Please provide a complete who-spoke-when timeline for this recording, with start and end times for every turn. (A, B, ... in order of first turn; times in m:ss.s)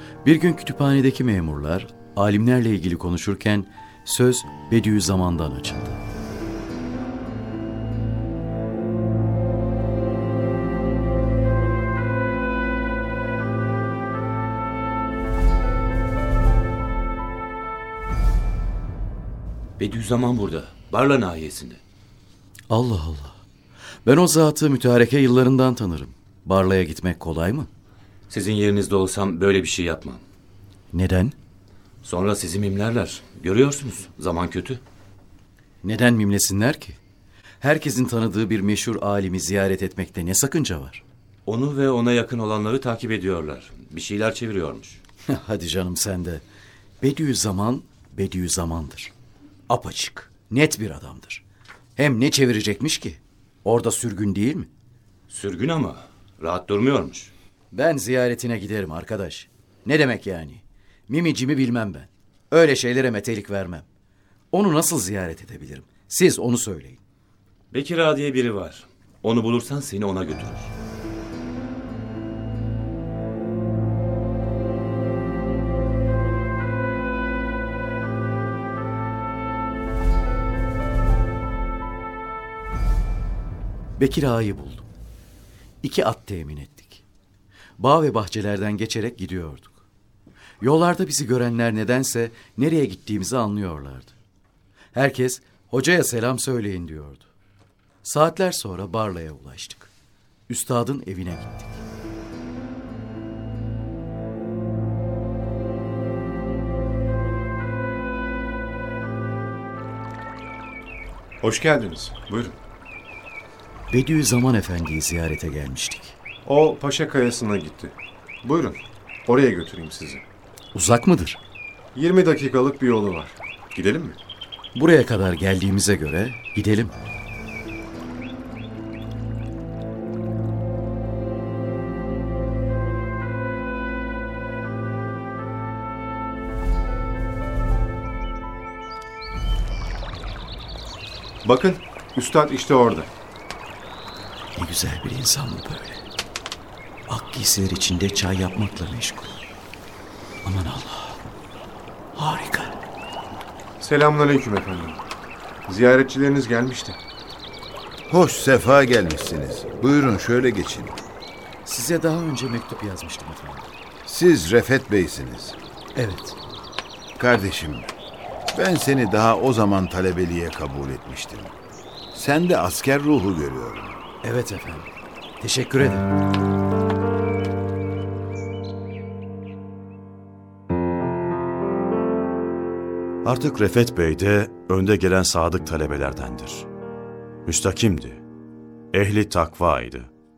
0:00.2-0:06.0 A
0:19.8-0:21.8 B
0:22.7-0:23.4 A
0:24.0-0:27.7 A
0:28.3-0:30.2 B
0:30.9-0:31.4 A
0:32.0-0:34.8 B
0:35.8-0:37.0 A
0:37.6-0:41.0 A
0:41.5-0:45.0 B
0:45.3-0:46.4 A
0:47.0-0:49.1 A
0:49.7-0:51.4 A
0:52.0-0:54.7 A
0:55.3-0:57.3 B
0:57.7-1:03.8 A
1:04.5-1:07.0 A
1:07.7-1:10.7 B
1:24.0-1:24.9 A
1:25.8-1:27.0 A
1:27.8-1:29.7 A
1:30.6-1:34.1 A
1:34.9-1:37.3 A
1:38.0-1:39.9 A
1:40.5-1:41.8 A
1:51.4-1:52.5 C
1:53.9-1:56.1 A
1:56.4-1:58.0 C
1:58.5-2:00.2 C
2:00.8-2:01.4 A
2:02.0-2:03.4 C
2:04.8-2:06.9 A
2:21.4-2:23.1 C
2:24.6-2:26.0 A
2:27.1-2:29.4 A
2:30.4-2:31.2 A
2:32.2-2:32.8 A
2:33.8-2:35.0 C
2:35.7-2:37.0 C
2:38.1-2:41.0 D
2:41.7-2:43.7 A
2:44.1-2:45.6 D
2:46.0-2:46.4 A
2:47.2-2:47.9 D
2:48.5-2:51.5 D
2:52.1-2:54.0 D
2:54.2-2:54.9 A
2:55.4-2:56.1 A
3:03.2-3:06.7 E
3:07.5-3:08.2 E
3:08.9-3:10.1 E